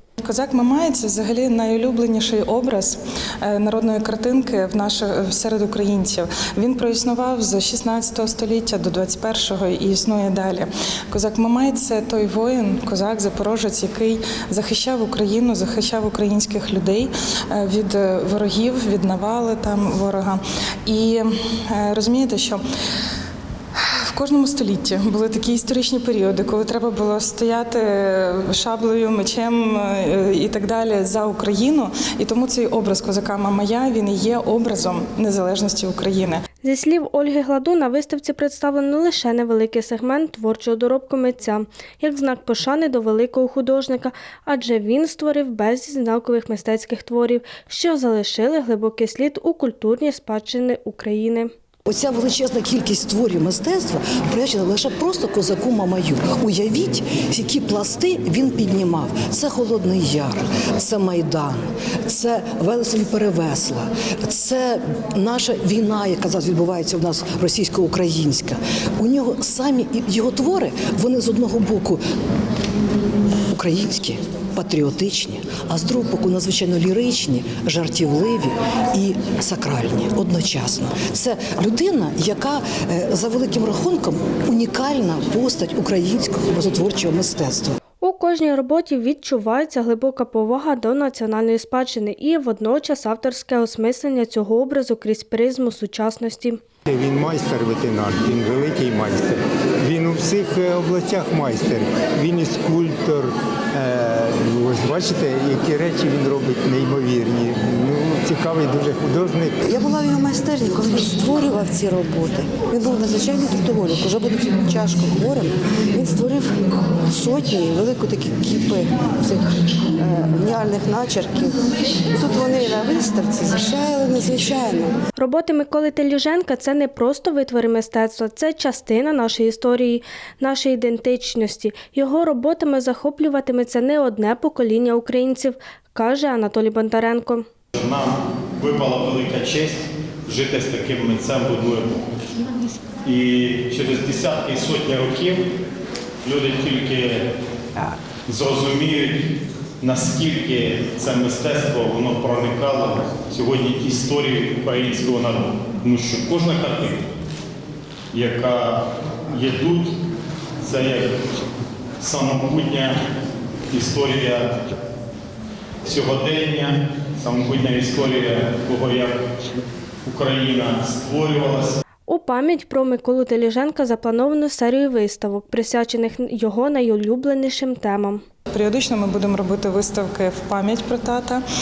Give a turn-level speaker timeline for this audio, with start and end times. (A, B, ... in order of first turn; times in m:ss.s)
0:00.2-0:22.6 A
0:23.7-0:36.4 A
0:36.6-0:51.5 B
0:51.9-1:12.0 C
1:13.5-1:27.7 C
1:28.0-1:36.6 B
1:36.9-1:49.7 D
1:49.6-2:04.9 E
2:05.2-2:17.4 B
2:17.8-2:22.0 F
2:23.0-2:25.5 F
2:26.2-2:27.3 F
2:28.3-2:29.2 F
2:29.8-2:37.0 F
2:38.1-2:39.9 F
2:40.6-2:41.1 F
2:42.0-2:43.0 F
2:43.7-2:44.7 F
2:45.8-2:49.2 F
2:50.0-2:51.8 F
2:52.1-2:58.2 B
2:58.5-3:01.4 A